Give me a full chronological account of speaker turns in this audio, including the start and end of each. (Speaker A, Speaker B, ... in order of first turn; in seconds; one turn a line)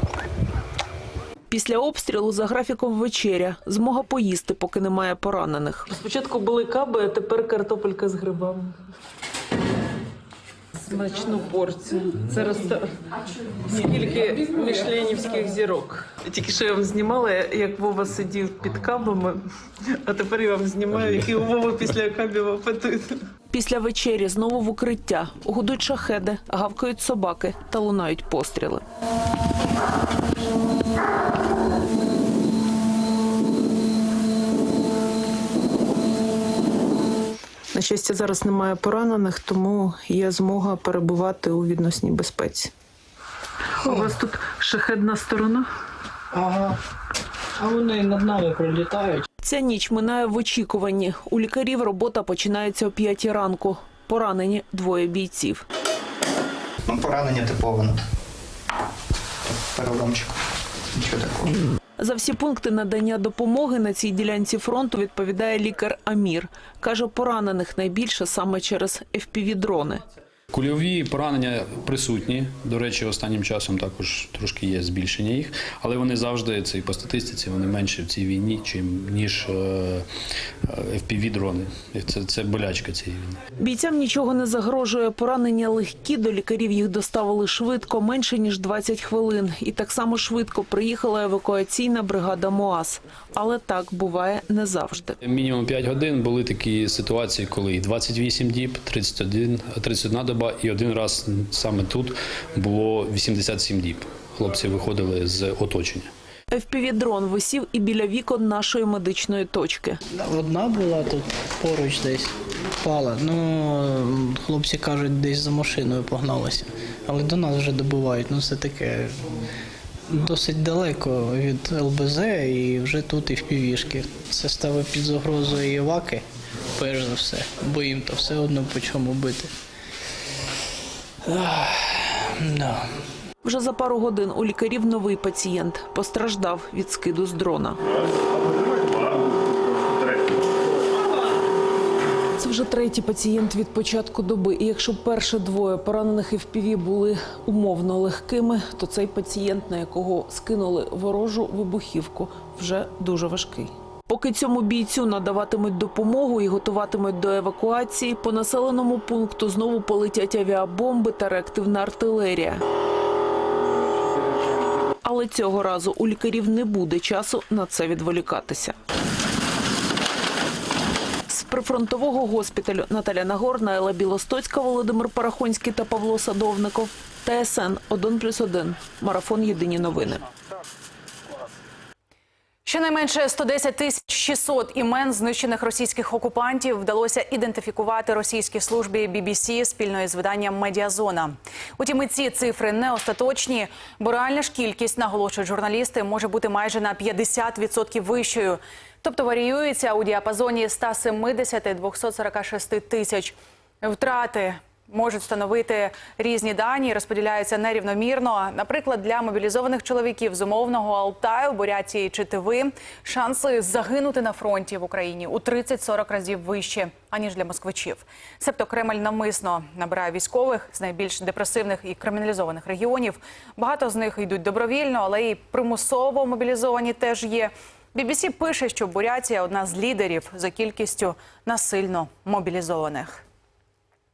Speaker A: 1.5-5.9
Speaker B: 5.9-8.8
Speaker B: 10.8-13.0
Speaker B: 13.6-19.4
Speaker B: 20.0-23.2
Speaker A: 23.5-28.8
Speaker B: 37.7-42.7
Speaker B: 43.8-45.7
Speaker B: 46.3-46.8
Speaker B: 47.6-49.2
Speaker A: 49.4-55.6
Speaker C: 56.9-58.0
Speaker C: 59.5-60.4
Speaker C: 60.9-61.6
Speaker A: 62.0-70.0
Speaker D: 70.5-80.1
Speaker D: 80.6-83.4
Speaker A: 83.6-95.2
Speaker D: 95.2-106.1
Speaker A: 106.5-110.0
Speaker E: 110.1-119.3
Speaker E: 120.1-129.5
Speaker E: 131.3-132.9
Speaker A: 133.4-137.8
Speaker A: 142.4-162.6
Speaker A: 165.0-168.8
Speaker A: 171.3-180.2
Speaker F: 182.7-233.2